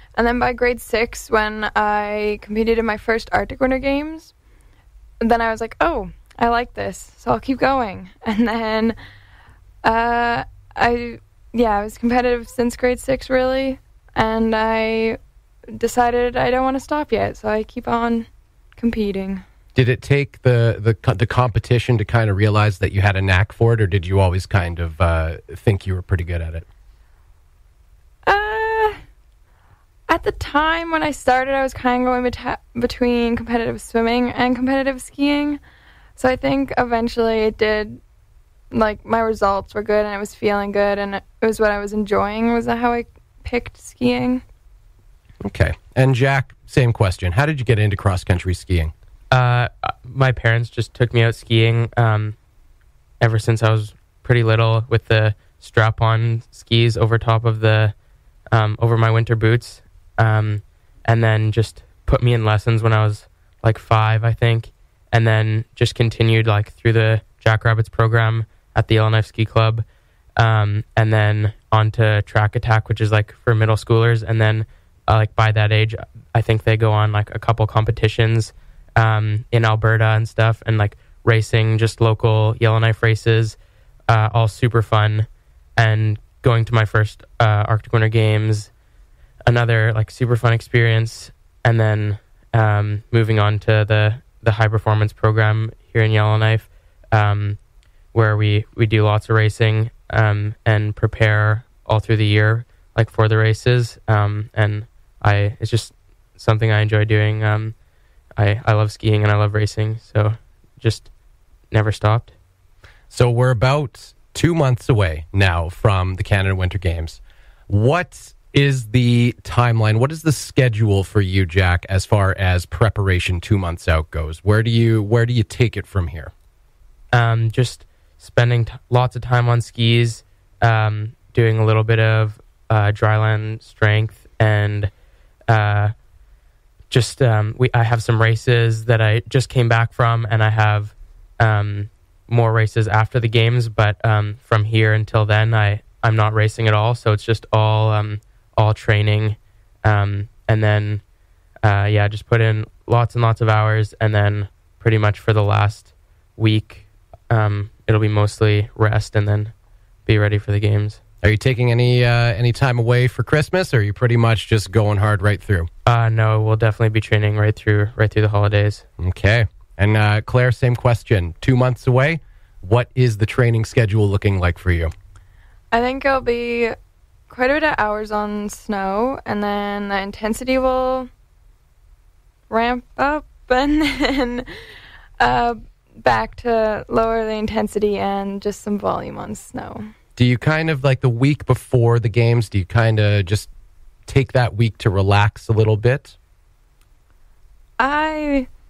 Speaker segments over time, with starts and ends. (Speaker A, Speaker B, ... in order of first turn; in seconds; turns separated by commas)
Speaker A: 0.1-4.3, Speaker A: 5.2-9.0, Speaker A: 9.8-15.2, Speaker A: 15.7-19.4, Speaker B: 19.7-26.6, Speaker A: 28.3-29.0, Speaker A: 30.1-35.6, Speaker A: 36.2-38.0, Speaker A: 38.7-44.4, Speaker B: 45.4-48.9, Speaker C: 49.3-52.3, Speaker C: 53.2-57.9, Speaker C: 58.5-69.8, Speaker C: 70.4-83.5, Speaker C: 84.1-88.7, Speaker C: 89.5-97.6, Speaker C: 98.1-107.7, Speaker C: 108.4-111.1, Speaker C: 111.7-112.3, Speaker B: 113.1-126.3, Speaker C: 127.1-134.9, Speaker C: 135.5-135.9, Speaker C: 136.9-151.0, Speaker C: 151.6-159.5, Speaker C: 160.1-161.0, Speaker B: 161.2-165.7, Speaker C: 165.8-168.8, Speaker B: 169.0-174.9, Speaker A: 175.7-176.7, Speaker A: 177.3-181.1, Speaker A: 182.5-184.4, Speaker A: 185.2-189.9, Speaker B: 190.2-193.5, Speaker B: 194.1-196.1, Speaker A: 197.8-198.5